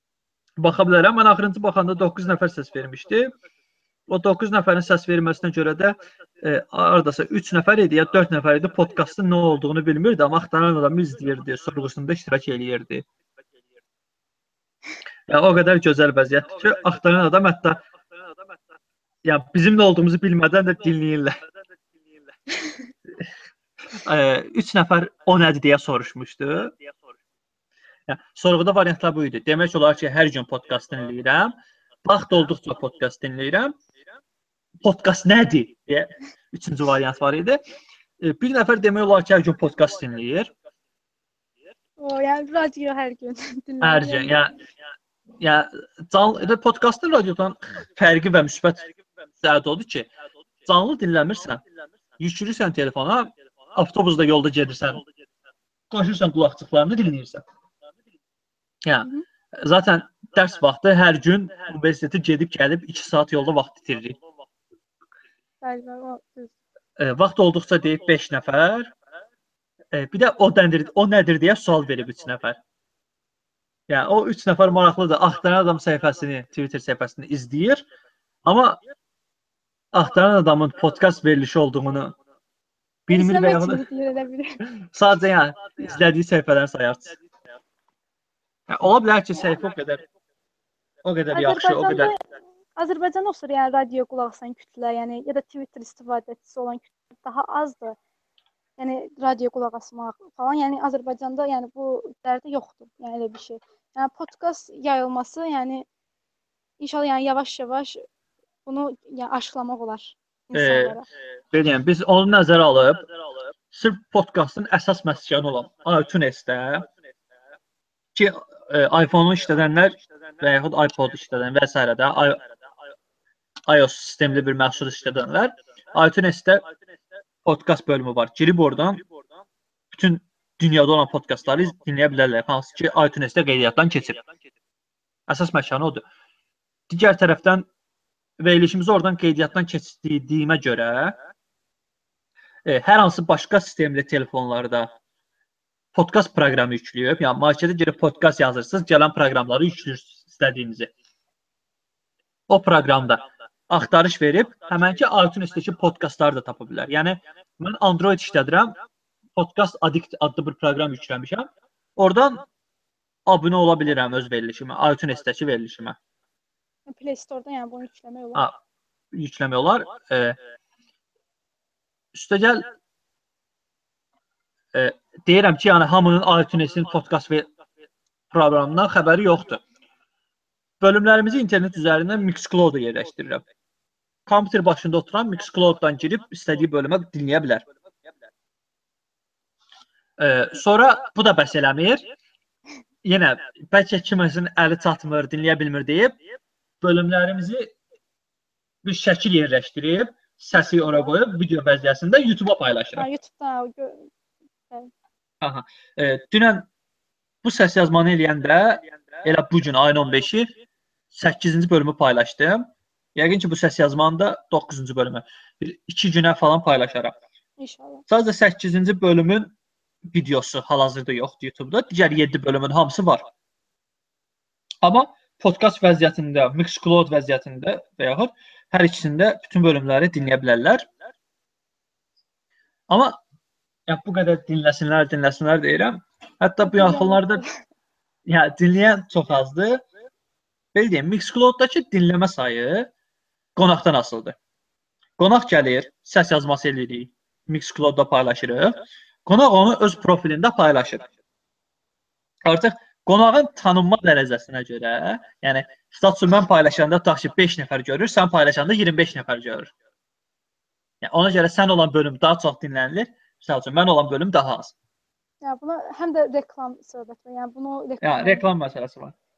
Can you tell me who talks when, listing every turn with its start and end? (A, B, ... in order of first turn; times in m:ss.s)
0:00.6-0:03.4 A
0:04.1-0:13.0 A
0:15.3-0:17.8 A
0:19.2-0:21.4 A
0:24.0-0:26.8 A
0:28.1-0:33.8 A
0:34.8-0:37.6 A
0:38.2-0:40.5 A
0:42.0-0:44.4 B
0:43.8-0:44.5 A
0:45.4-0:50.1 A
0:50.7-0:51.6 A
0:52.2-0:55.0 A
0:55.9-0:57.4 A
0:58.8-1:04.2 A
1:05.6-1:06.5 B
1:07.0-1:08.9 A
1:09.9-1:12.6 A
1:13.9-1:17.9 A
1:18.4-1:18.8 A
1:19.9-1:22.2 A
1:23.1-1:23.8 A
1:23.1-1:24.6 B
1:24.9-1:27.2 A
1:28.7-1:30.0 A
1:31.0-1:32.1 A
1:31.3-1:32.2 B
1:32.8-1:38.0 B
1:38.8-1:45.9 B
1:46.8-1:48.0 B
1:48.7-1:51.0 B
1:50.5-1:51.0 A
1:51.5-1:53.1 A
1:53.7-1:56.9 A
1:58.2-2:02.4 A
2:03.7-2:06.6 A
2:07.4-2:09.0 A
2:09.9-2:14.2 A
2:15.3-2:16.0 A
2:16.9-2:17.7 A
2:18.4-2:21.2 A
2:22.6-2:24.9 A
2:25.9-2:30.9 A
2:32.5-2:38.8 A
2:39.4-2:42.4 A
2:43.3-2:46.0 A
2:46.9-2:48.5 B
2:49.1-2:50.4 A
2:52.1-2:52.7 A
2:54.7-2:57.5 A
2:58.3-2:59.6 A
3:00.8-3:03.4 A
3:04.3-3:07.6 A
3:10.2-3:12.0 A
3:13.0-3:16.2 A
3:16.8-3:17.7 A
3:18.8-3:23.1 A
3:23.0-3:24.1 B
3:25.4-3:26.7 A
3:27.4-3:30.5 A
3:31.1-3:37.2 A
3:37.6-3:38.0 B
3:38.1-3:39.5 A
3:40.1-3:43.2 A
3:44.8-3:50.9 A
3:52.9-3:53.2 A
3:53.9-3:57.4 A
3:56.6-3:57.5 B
3:58.3-3:59.8 A
4:00.7-4:02.9 A
4:03.6-4:04.4 A
4:05.2-4:11.1 A
4:12.4-4:19.7 A
4:21.0-4:24.7 A
4:25.4-4:28.5 B
4:28.0-4:29.1 A